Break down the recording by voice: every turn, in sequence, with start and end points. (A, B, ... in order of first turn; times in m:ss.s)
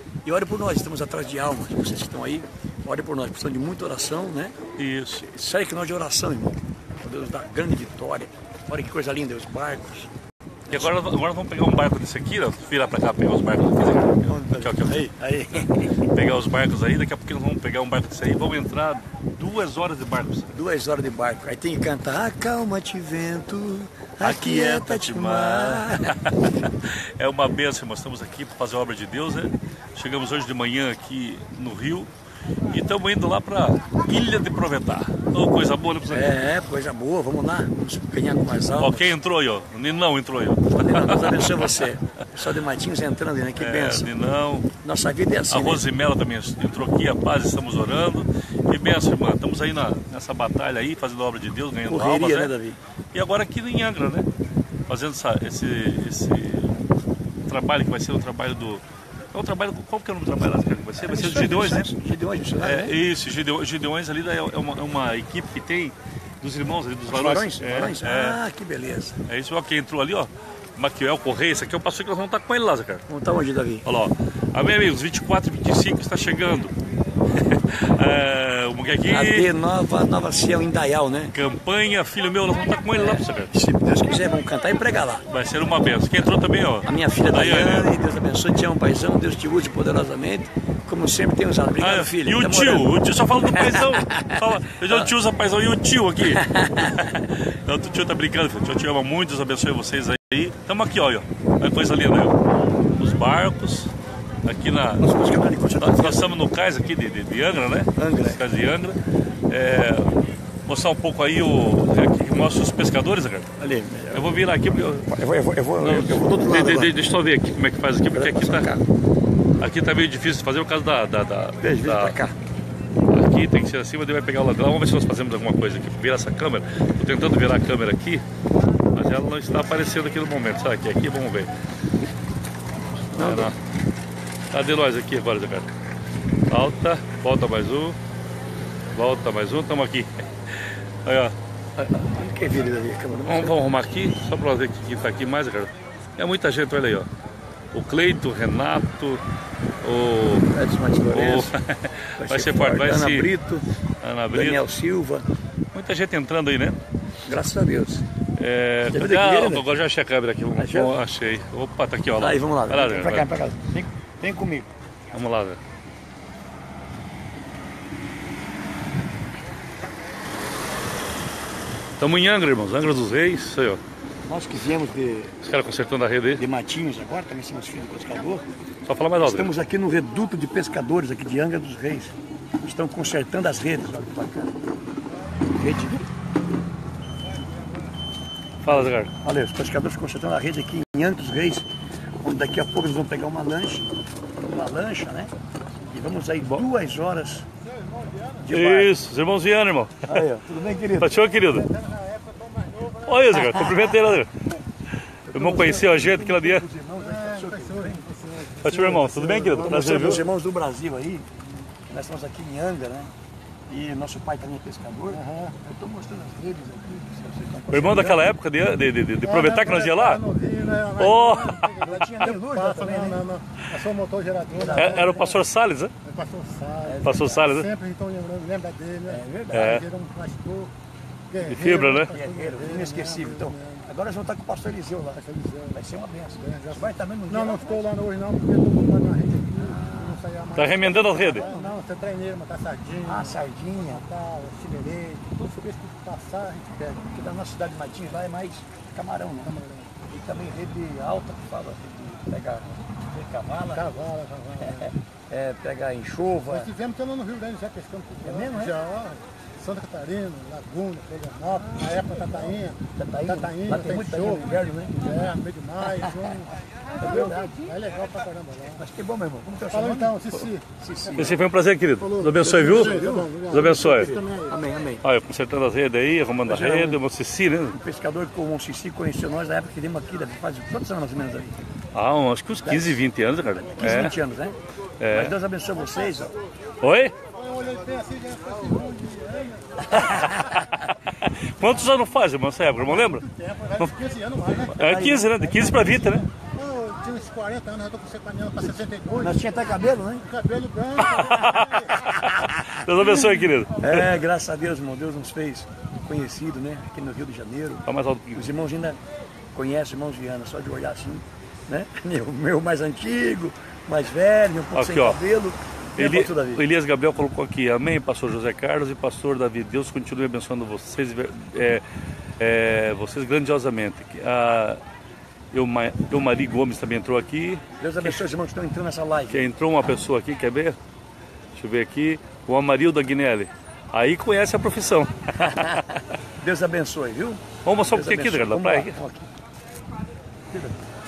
0:00.2-0:04.5 A
0:04.8-0:05.2 B
0:05.2-0:10.1 A
0:10.7-0:10.9 A
0:10.7-0:20.5 B
0:14.2-0:16.0 A
0:20.5-0:26.1 A
0:24.2-0:32.1 B
0:32.7-0:36.3 B
0:36.1-0:39.2 A
0:38.8-0:41.9 B
0:40.7-0:44.1 A
0:43.6-0:44.7 B
0:44.8-0:45.9 A
0:45.5-0:52.5 B
0:51.9-0:52.8 A
0:53.1-0:54.3 B
0:54.9-0:56.8 B
0:57.4-1:01.9 B
1:01.0-1:03.0 A
1:02.6-1:08.4 B
1:07.1-1:09.2 A
1:09.2-1:13.0 B
1:13.1-1:13.9 A
1:13.8-1:16.7 B
1:17.3-1:19.5 B
1:19.1-1:21.3 A
1:21.3-1:23.5 B
1:22.9-1:25.2 A
1:25.3-1:27.9 B
1:26.8-1:32.9 A
1:31.8-1:42.4 B
1:33.5-1:35.1 A
1:36.2-1:37.2 A
1:42.9-1:43.9 B
1:44.4-1:53.5 B
1:45.0-1:46.4 A
1:48.0-1:48.4 A
1:53.6-1:54.4 A
1:54.1-1:55.1 B
1:55.0-1:56.9 A
1:55.8-1:58.7 B
1:58.1-1:58.9 A
1:59.6-2:02.2 B
2:01.6-2:02.4 A
2:03.1-2:08.2 B
2:08.9-2:11.5 B
2:13.1-2:13.6 B
2:13.1-2:13.5 A
2:14.5-2:15.7 B
2:16.5-2:18.0 B
2:18.9-2:21.3 B
2:21.8-2:23.6 A
2:23.2-2:27.1 B
2:27.7-2:29.2 B
2:29.8-2:30.5 B
2:30.5-2:31.5 A
2:31.1-2:33.3 B
2:32.2-2:33.6 A
2:34.0-2:34.6 B
2:34.3-2:35.2 A
2:35.7-2:36.8 B
2:37.2-2:38.0 A
2:38.4-2:43.3 B
2:38.9-2:39.7 A
2:40.5-2:41.0 A
2:42.2-2:44.7 A
2:45.1-2:45.6 B
2:52.0-2:53.8 B
2:54.2-2:55.4 A
2:55.4-2:56.4 B
2:56.4-2:58.4 A
2:58.8-2:59.5 B
2:59.2-3:04.5 A
3:05.5-3:06.0 A
3:08.6-3:09.1 B
3:08.7-3:11.7 A
3:12.2-3:13.9 A
3:14.4-3:15.3 A
3:15.9-3:17.4 A
3:17.9-3:18.3 C
3:18.4-3:18.9 A
3:18.5-3:20.2 B
3:20.1-3:21.2 A
3:21.0-3:21.7 B
3:21.7-3:22.9 C
3:23.0-3:24.3 B
3:23.3-3:24.0 A
3:25.2-3:28.1 A
3:25.3-3:26.6 B
3:27.1-3:29.6 C
3:28.5-3:30.2 B
3:29.1-3:31.3 A
3:31.9-3:33.1 A
3:33.7-3:38.3 A
3:35.1-3:35.5 C
3:37.7-3:40.2 B
3:39.2-3:45.1 C
3:40.8-3:41.7 B
3:41.8-3:43.3 A
3:44.5-3:45.2 A
3:44.8-3:45.9 B
3:46.0-3:49.2 C
3:46.8-3:47.4 A
3:47.0-3:47.7 B
3:49.0-3:49.8 A
3:49.5-3:49.9 B
3:49.7-3:50.7 C
3:51.3-3:53.6 C
3:51.4-3:52.1 B
3:51.6-3:57.9 A
3:55.3-3:55.7 C
3:57.3-4:03.3 C
3:59.5-4:00.3 A
4:00.5-4:01.5 B
4:01.4-4:01.8 A
4:03.0-4:04.0 A
4:03.9-4:07.0 C
4:07.0-4:14.0 A
4:09.5-4:09.9 C
4:13.9-4:14.9 C
4:14.6-4:16.8 A
4:16.6-4:22.8 C
4:18.2-4:18.8 A
4:21.8-4:25.2 A
4:23.3-4:24.4 C
4:25.0-4:26.4 C
4:25.8-4:27.7 A
4:27.0-4:28.8 C
4:28.7-4:31.4 A
4:29.7-4:30.6 C
4:31.2-4:34.2 B
4:32.0-4:34.5 C
4:32.4-4:35.0 A
4:35.0-4:37.8 B
4:36.4-4:37.0 A
4:37.7-4:41.5 A
4:41.9-4:44.1 B
4:42.6-4:43.0 A
4:43.7-4:44.6 A
4:45.0-4:45.3 B
4:45.1-4:46.3 A
4:46.8-4:47.1 B
4:47.3-4:50.0 C
4:49.9-4:50.4 A
4:49.9-4:53.9 B
4:53.2-4:54.7 C
4:54.5-4:56.0 A
4:54.7-4:56.2 B
4:56.5-4:59.3 C
4:58.7-5:00.3 A
5:00.3-5:01.8 C
5:01.0-5:04.2 B
5:02.0-5:03.3 A
5:03.8-5:09.0 A
5:07.8-5:08.5 B
5:09.5-5:16.6 A
5:14.7-5:15.2 B
5:16.0-5:21.8 B
5:22.4-5:24.8 B
5:25.5-5:28.2 B
5:27.8-5:29.5 A
5:29.3-5:30.8 B
5:31.5-5:36.0 B
5:36.4-5:39.3 A
5:37.6-5:39.0 B
5:40.5-5:40.8 A